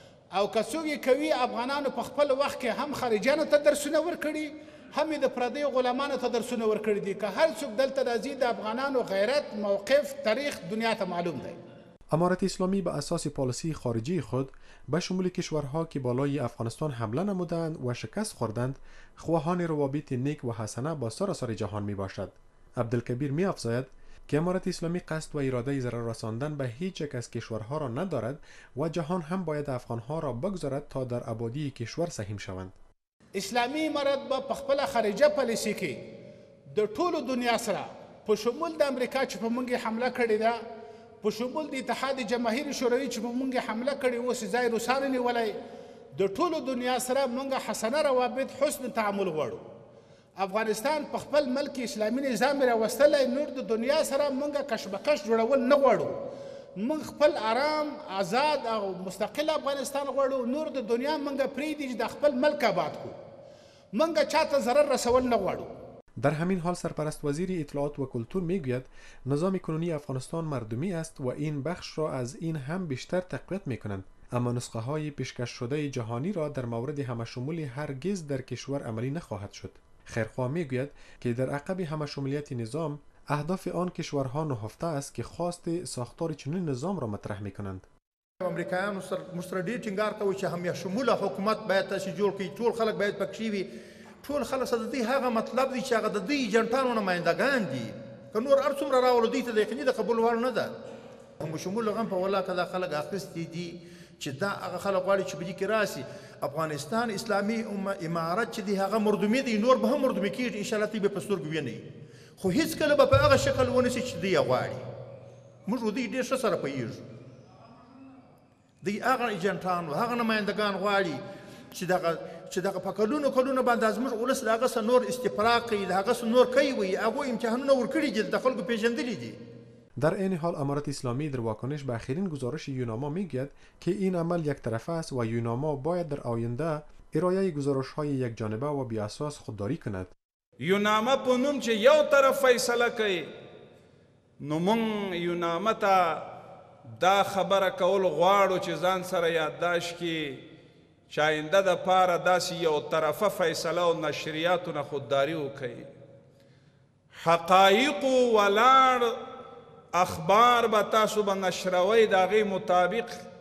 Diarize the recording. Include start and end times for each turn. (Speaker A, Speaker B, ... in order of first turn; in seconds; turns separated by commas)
Speaker A: 0.3-11.6, Speaker B: 12.1-32.7, Speaker A: 33.4-36.0, Speaker A: 36.7-40.6, Speaker A: 41.2-45.5, Speaker A: 46.1-49.6, Speaker A: 50.4-56.2, Speaker A: 56.8-63.2, Speaker A: 63.9-65.7, Speaker B: 66.2-87.8, Speaker C: 88.4-93.7, Speaker C: 94.2-100.7, Speaker C: 101.4-111.8, Speaker C: 112.4-114.8, Speaker C: 115.7-117.0, Speaker C: 118.8-121.2, Speaker C: 121.7-129.4, Speaker B: 130.0-140.1, Speaker D: 140.6-143.3, Speaker D: 144.4-146.3, Speaker D: 146.9-150.4, Speaker D: 151.1-155.9, Speaker D: 157.2-159.2, Speaker D: 159.9-163.2